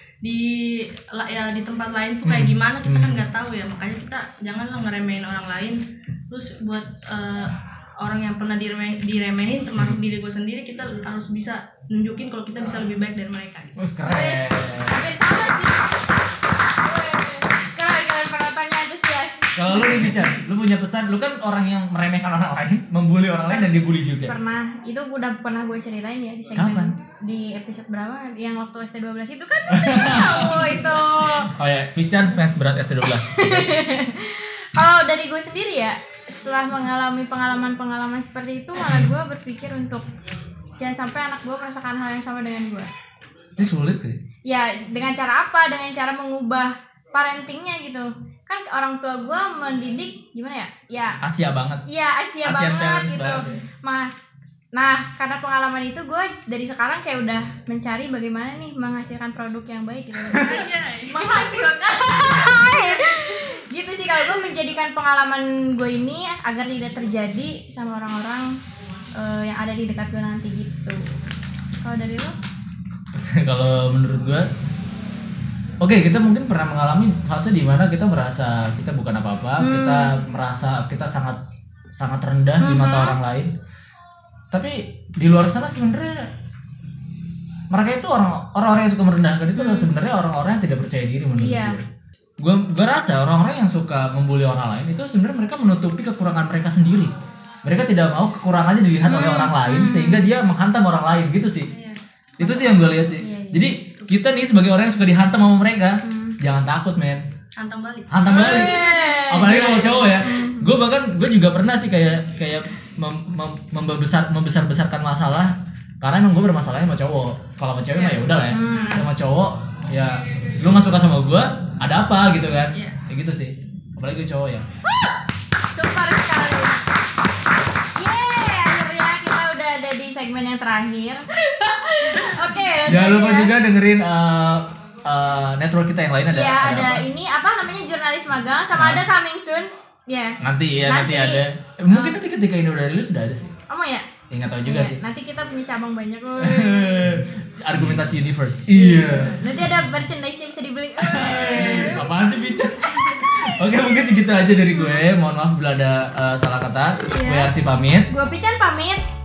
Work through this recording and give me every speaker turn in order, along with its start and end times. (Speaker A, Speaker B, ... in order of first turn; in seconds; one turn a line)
Speaker A: 0.2-13.8
Speaker B: 2.2-3.2
Speaker B: 13.8-15.1
Speaker C: 14.1-16.1
Speaker C: 16.8-20.1
Speaker B: 19.6-24.3
Speaker C: 24.3-31.5
Speaker B: 26.6-26.9
Speaker B: 29.7-33.7
Speaker C: 33.0-40.0
Speaker B: 38.8-39.1
Speaker C: 40.8-42.9
Speaker B: 43.6-44.2
Speaker C: 44.5-51.2
Speaker B: 51.2-51.9
Speaker C: 51.9-54.1
Speaker B: 52.4-53.6
Speaker C: 54.7-68.5
Speaker A: 60.4-63.0
Speaker C: 69.2-71.1
Speaker C: 71.8-72.3
Speaker B: 73.1-74.5
Speaker B: 75.8-81.4
Speaker C: 79.6-80.1
Speaker B: 82.0-83.5
Speaker C: 82.6-83.2
Speaker B: 84.5-86.3
Speaker B: 87.7-91.8
Speaker C: 89.6-89.9
Speaker C: 91.4-91.8
Speaker B: 92.4-97.1
Speaker B: 97.6-101.7
Speaker C: 99.0-100.3
Speaker A: 101.7-102.8
Speaker B: 102.4-107.2
Speaker C: 103.2-103.6
Speaker A: 103.9-104.1
Speaker C: 106.0-106.4
Speaker A: 107.6-109.0
Speaker B: 108.1-124.7
Speaker C: 108.3-110.8
Speaker A: 117.9-119.0
Speaker C: 118.5-119.0
Speaker C: 124.8-125.2
Speaker C: 125.7-126.8
Speaker C: 128.0-133.5
Speaker B: 132.8-137.1
Speaker C: 136.3-142.2
Speaker B: 138.7-139.1
Speaker B: 140.4-143.5
Speaker C: 143.7-144.1
Speaker B: 144.3-145.0
Speaker C: 144.6-147.3
Speaker B: 146.4-149.8
Speaker C: 148.7-152.1
Speaker B: 151.0-158.1
Speaker A: 151.6-152.0
Speaker C: 154.7-155.0
Speaker C: 157.1-157.5
Speaker C: 158.1-159.0